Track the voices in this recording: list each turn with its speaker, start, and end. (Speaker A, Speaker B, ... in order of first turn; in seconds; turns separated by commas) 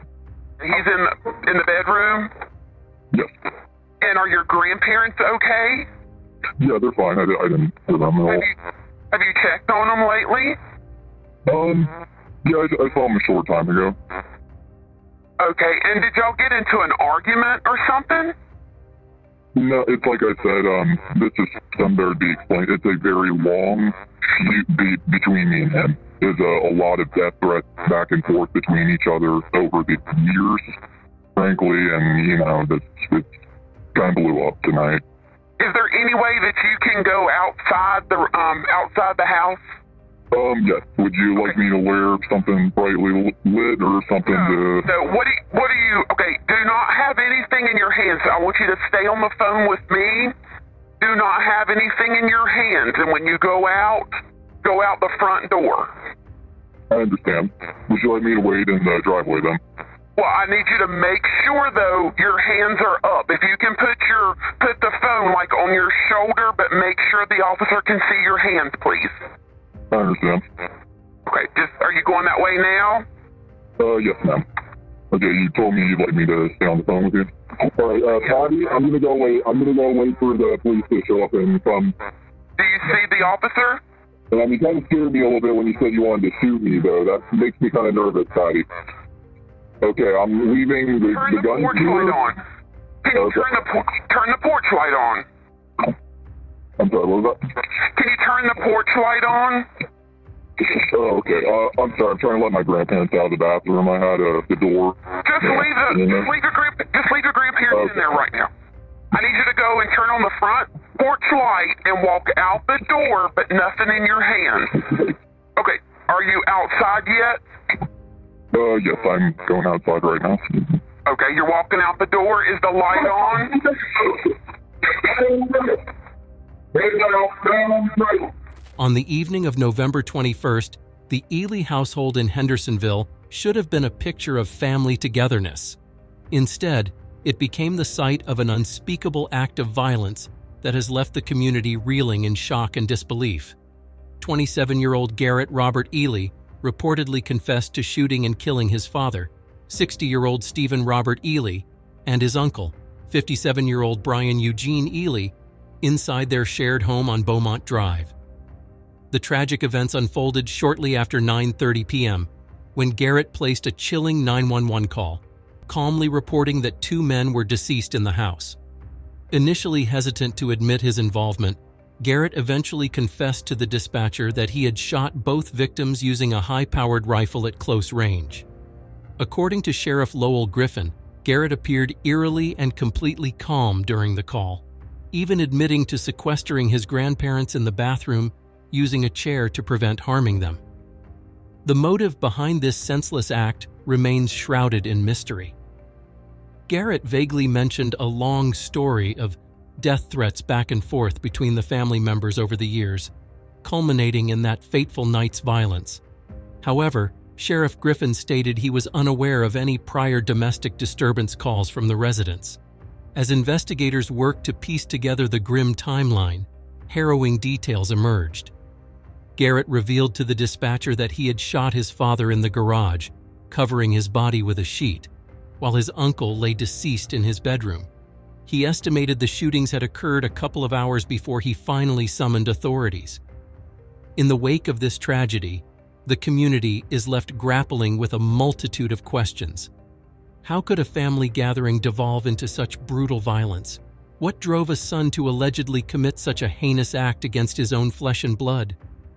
Speaker A: 0.6-2.3, Speaker A: 4.0-5.9, Speaker B: 6.6-8.5, Speaker A: 8.3-8.6, Speaker A: 9.1-10.6, Speaker B: 11.5-14.0, Speaker A: 15.4-18.4, Speaker B: 19.6-30.8, Speaker B: 31.4-33.3, Speaker B: 33.9-35.0, Speaker A: 35.6-39.6, Speaker B: 40.3-44.9, Speaker A: 44.3-50.4, Speaker A: 51.0-55.9, Speaker B: 56.9-59.6, Speaker A: 60.2-69.2, Speaker B: 69.9-70.5, Speaker A: 71.3-73.1, Speaker B: 73.8-74.5, Speaker B: 75.1-82.0, Speaker A: 82.6-83.8, Speaker B: 84.3-88.7, Speaker B: 89.8-92.3, Speaker A: 91.1-92.4, Speaker A: 93.0-95.2, Speaker B: 93.1-93.5, Speaker B: 96.8-97.5, Speaker A: 97.8-99.7, Speaker B: 100.6-106.3, Speaker A: 105.2-108.5, Speaker A: 109.1-117.4, Speaker B: 118.5-120.8, Speaker A: 121.1-123.6, Speaker B: 123.0-124.3, Speaker B: 124.9-125.8, Speaker B: 126.7-128.3, Speaker C: 128.8-135.8, Speaker C: 136.3-143.6, Speaker C: 144.2-158.1, Speaker C: 159.1-168.6, Speaker C: 169.3-178.4, Speaker C: 179.2-190.6, Speaker C: 191.7-195.5, Speaker C: 196.7-203.1, Speaker C: 203.6-206.0, Speaker C: 206.6-212.6, Speaker C: 213.2-218.5, Speaker C: 219.4-225.1, Speaker C: 225.6-227.9, Speaker C: 228.5-233.2, Speaker C: 234.2-239.7, Speaker C: 240.4-248.8